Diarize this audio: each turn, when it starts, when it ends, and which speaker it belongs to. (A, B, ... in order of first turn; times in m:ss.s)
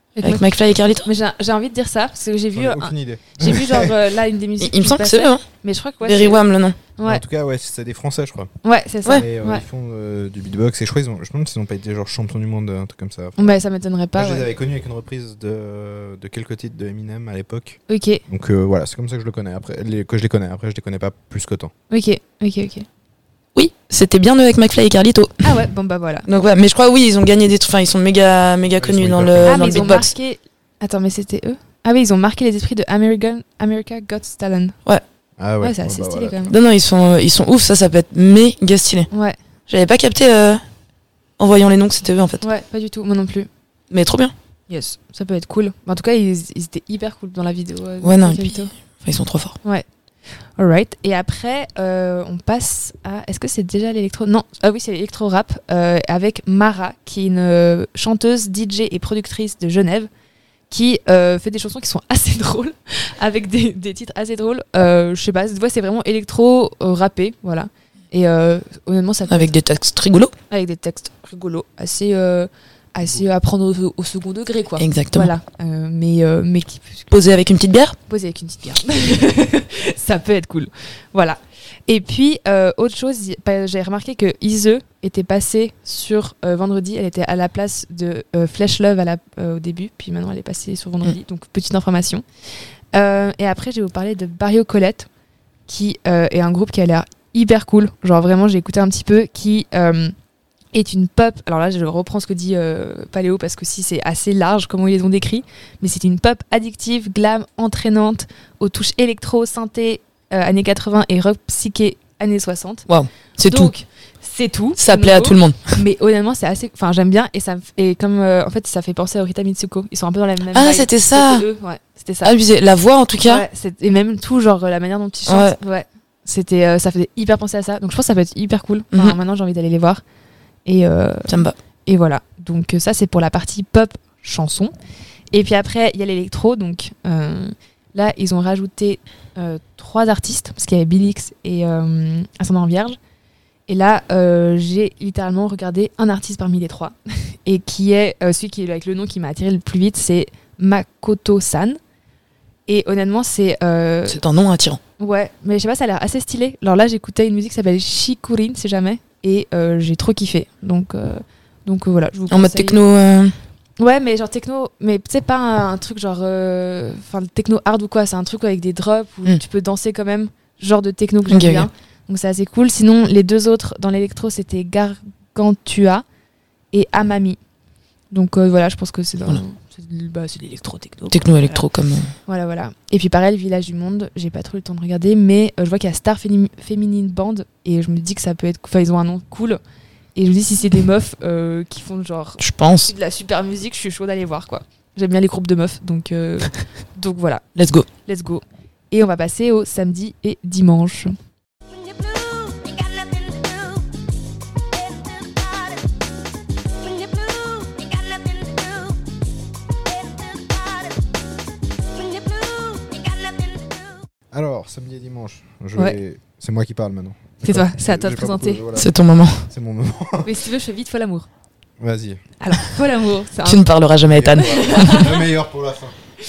0:00.2-0:00.4 A
0:00.2-0:01.1 B
0:01.0-0:06.4 A
0:02.5-0:03.9 C
0:04.6-0:05.4 B
0:06.0-0:06.8 B
0:07.0-0:07.2 A
0:07.0-0:08.5 C
0:08.6-0:09.6 A
0:09.1-0:13.6 C
0:13.4-0:14.5 A
0:14.1-0:21.7 C
0:17.9-0:18.2 A
0:21.9-0:22.9 A
0:23.5-0:25.4 B
0:25.4-0:26.2 A
0:26.3-0:30.1 B
0:28.8-0:30.0 C
0:29.4-0:34.8 A
0:35.4-0:36.5 C
0:35.6-0:36.5 A
0:36.5-0:39.1 B
0:39.1-0:39.4 A
0:39.7-0:40.6 B
0:41.4-0:42.4 B
0:42.4-0:43.5 A
0:43.9-0:44.3 B
0:44.7-0:48.7 A
0:48.0-0:49.6 B
0:50.6-1:00.1 A
1:00.7-1:09.5 A
1:09.3-1:10.3 B
1:10.5-1:17.1 A
1:14.8-1:15.3 B
1:17.1-1:18.0 B
1:18.1-1:32.2 A
1:32.9-1:35.1 A
1:35.7-1:40.1 A
1:40.7-1:52.8 A
1:52.9-1:53.7 B
1:53.4-2:02.3 A
1:54.8-1:55.8 B
2:00.5-2:01.4 B
2:02.2-2:03.4 B
2:03.2-2:10.0 A
2:05.3-2:05.6 B
2:10.6-2:14.7 A
2:11.3-2:11.5 B
2:15.3-2:23.0 A
2:23.7-2:31.8 A
2:32.7-2:34.2 A
2:34.1-2:34.8 B
2:35.0-2:42.8 A
2:42.3-2:43.4 B
2:43.8-2:56.0 A
2:51.3-2:51.7 B
2:56.7-2:57.4 A
2:58.1-3:01.6 A
3:01.1-3:02.1 B
3:02.3-3:09.6 A
3:10.1-3:17.4 A
3:12.4-3:12.9 B
3:17.6-3:17.9 B
3:18.0-3:21.1 A
3:34.3-3:38.9 C
3:37.4-3:38.6 A
3:38.8-3:39.4 B
3:39.5-3:40.3 C
3:40.2-3:41.3 A
3:41.8-3:42.2 C
3:42.4-3:43.7 A
3:43.4-3:45.1 B
3:44.1-3:45.9 C
3:44.4-3:45.2 A